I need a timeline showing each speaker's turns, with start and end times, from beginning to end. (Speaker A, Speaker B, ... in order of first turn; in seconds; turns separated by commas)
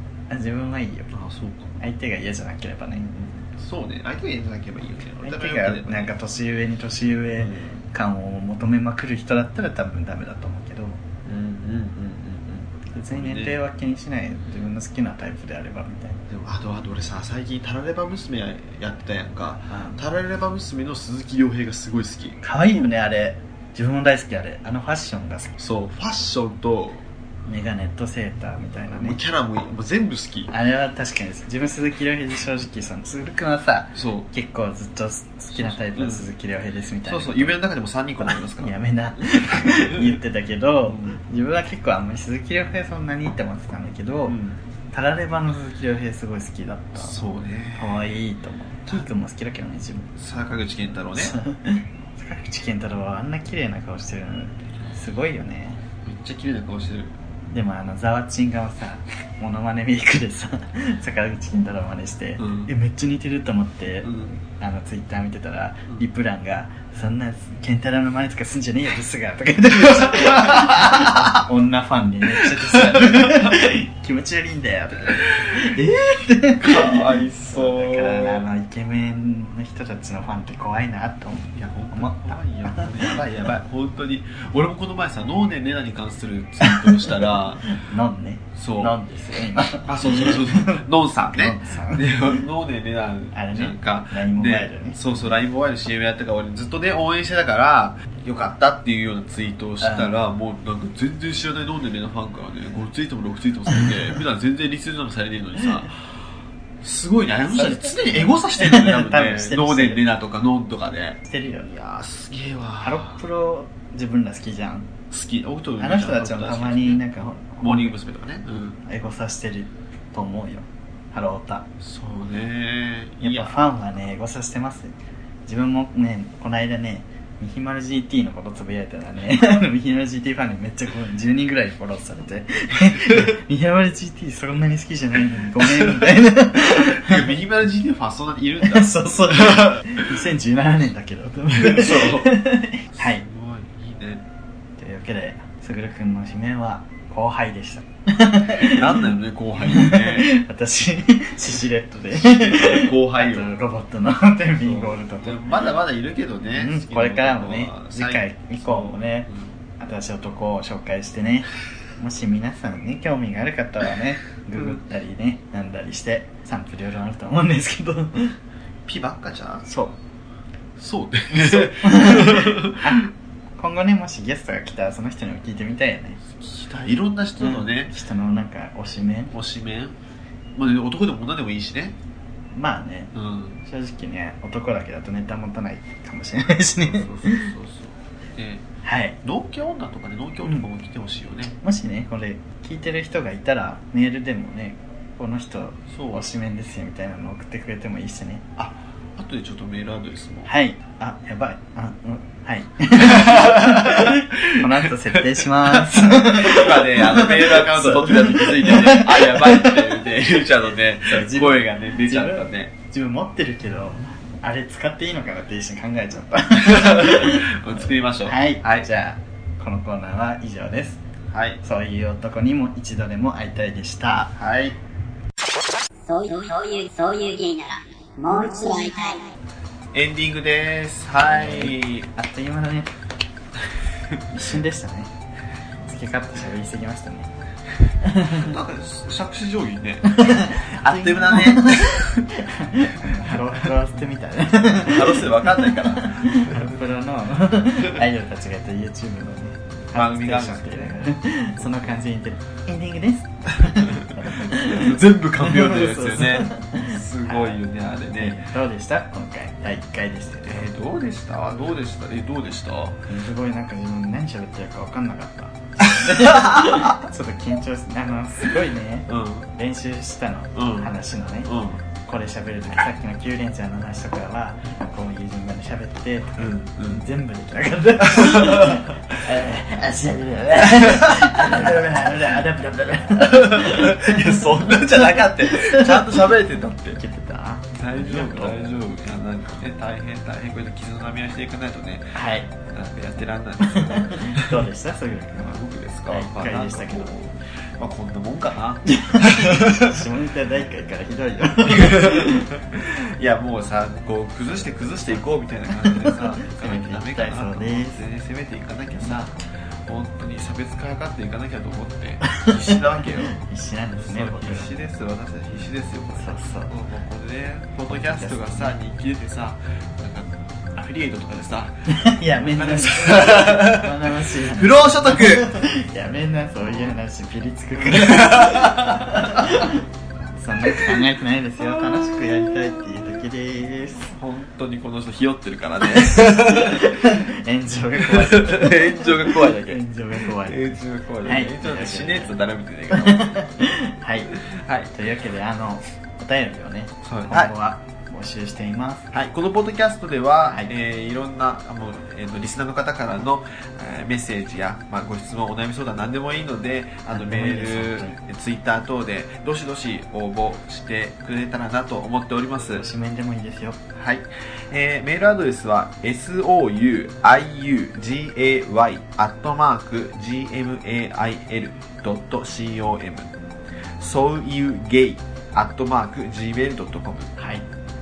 Speaker A: 0.3-1.1, Speaker B: 1.1-1.8, Speaker A: 1.8-3.2, Speaker B: 3.1-6.1, Speaker A: 5.2-11.0, Speaker B: 7.4-7.8, Speaker B: 11.2-13.6, Speaker A: 12.9-16.2, Speaker B: 16.3-22.4, Speaker A: 19.6-20.0, Speaker A: 22.4-25.6, Speaker B: 25.6-27.0, Speaker A: 27.4-29.2, Speaker B: 28.9-30.5, Speaker A: 30.5-37.6, Speaker B: 33.9-34.3, Speaker B: 35.5-36.3, Speaker B: 37.1-40.2, Speaker A: 38.3-44.4, Speaker B: 40.9-41.2, Speaker B: 44.3-44.6, Speaker A: 44.9-50.1, Speaker B: 46.9-48.1, Speaker B: 50.1-51.4, Speaker A: 51.1-55.8, Speaker B: 56.0-57.1, Speaker A: 57.5-83.2, Speaker B: 62.4-62.7, Speaker B: 64.0-64.4, Speaker B: 69.8-71.3, Speaker B: 72.5-73.5, Speaker B: 75.1-75.8, Speaker B: 76.6-78.4, Speaker B: 81.5-87.6, Speaker A: 86.6-92.1, Speaker B: 88.6-89.0, Speaker B: 89.8-106.0, Speaker A: 93.3-95.3, Speaker A: 99.8-100.2, Speaker B: 106.8-113.2, Speaker A: 107.5-110.0, Speaker A: 111.2-111.7, Speaker A: 112.8-114.9, Speaker B: 115.1-118.8, Speaker A: 115.8-118.0, Speaker A: 118.8-121.7, Speaker B: 121.8-123.6, Speaker A: 123.2-137.4, Speaker B: 135.6-139.9, Speaker A: 138.6-143.2, Speaker B: 141.5-142.4, Speaker B: 142.9-144.2, Speaker A: 144.8-155.4, Speaker B: 148.6-150.3, Speaker B: 152.1-153.5, Speaker B: 154.6-159.5, Speaker A: 156.5-168.4, Speaker B: 168.9-169.7, Speaker A: 169.7-169.9, Speaker B: 170.8-173.1, Speaker A: 171.3-176.2, Speaker B: 176.3-177.9, Speaker A: 177.4-179.3, Speaker B: 179.3-180.0, Speaker B: 180.6-182.0, Speaker A: 182.5-187.5, Speaker B: 183.1-183.6, Speaker B: 186.8-188.7, Speaker A: 188.8-189.2, Speaker B: 189.2-191.6, Speaker A: 191.6-198.5, Speaker B: 195.9-196.3, Speaker B: 198.6-200.5, Speaker A: 200.5-210.4, Speaker B: 203.0-212.7, Speaker A: 211.1-217.5, Speaker B: 216.6-218.9, Speaker A: 218.2-221.0, Speaker B: 221.3-221.6, Speaker A: 221.6-224.4, Speaker B: 224.4-224.8, Speaker C: 226.1-229.3, Speaker B: 229.9-232.1, Speaker A: 231.2-232.9, Speaker A: 234.3-235.1, Speaker A: 235.9-237.3, Speaker A: 238.0-238.6, Speaker B: 238.3-242.3, Speaker A: 240.1-257.6, Speaker B: 243.1-243.7, Speaker B: 244.7-246.8, Speaker B: 249.9-251.9, Speaker B: 253.6-258.4, Speaker A: 258.1-260.7, Speaker B: 260.4-263.0, Speaker A: 263.1-286.3, Speaker B: 265.8-267.0, Speaker B: 269.1-269.5, Speaker B: 270.6-270.9, Speaker B: 271.4-271.8, Speaker B: 276.4-277.0, Speaker B: 278.0-278.9, Speaker B: 280.7-281.7, Speaker B: 283.2-287.0, Speaker A: 286.9-288.8, Speaker B: 287.7-294.6, Speaker A: 292.1-292.5, Speaker A: 293.6-297.1, Speaker B: 295.4-300.0, Speaker A: 298.9-302.5, Speaker B: 301.6-313.4, Speaker A: 305.8-308.0, Speaker A: 312.2-314.7, Speaker B: 313.9-321.7, Speaker A: 316.2-316.7, Speaker A: 317.9-318.8, Speaker A: 321.9-329.8, Speaker B: 322.5-325.6, Speaker B: 326.7-326.9, Speaker B: 327.8-329.7, Speaker A: 330.4-334.1, Speaker B: 330.7-331.0, Speaker B: 331.6-333.0, Speaker B: 334.1-337.2, Speaker A: 335.8-342.4, Speaker B: 338.0-343.4, Speaker A: 342.9-344.3, Speaker B: 344.4-344.9, Speaker A: 344.9-349.1, Speaker B: 347.1-347.5, Speaker B: 349.1-362.9, Speaker A: 357.1-358.2, Speaker A: 362.7-363.8, Speaker B: 363.9-373.3, Speaker B: 374.0-377.4, Speaker A: 377.4-377.6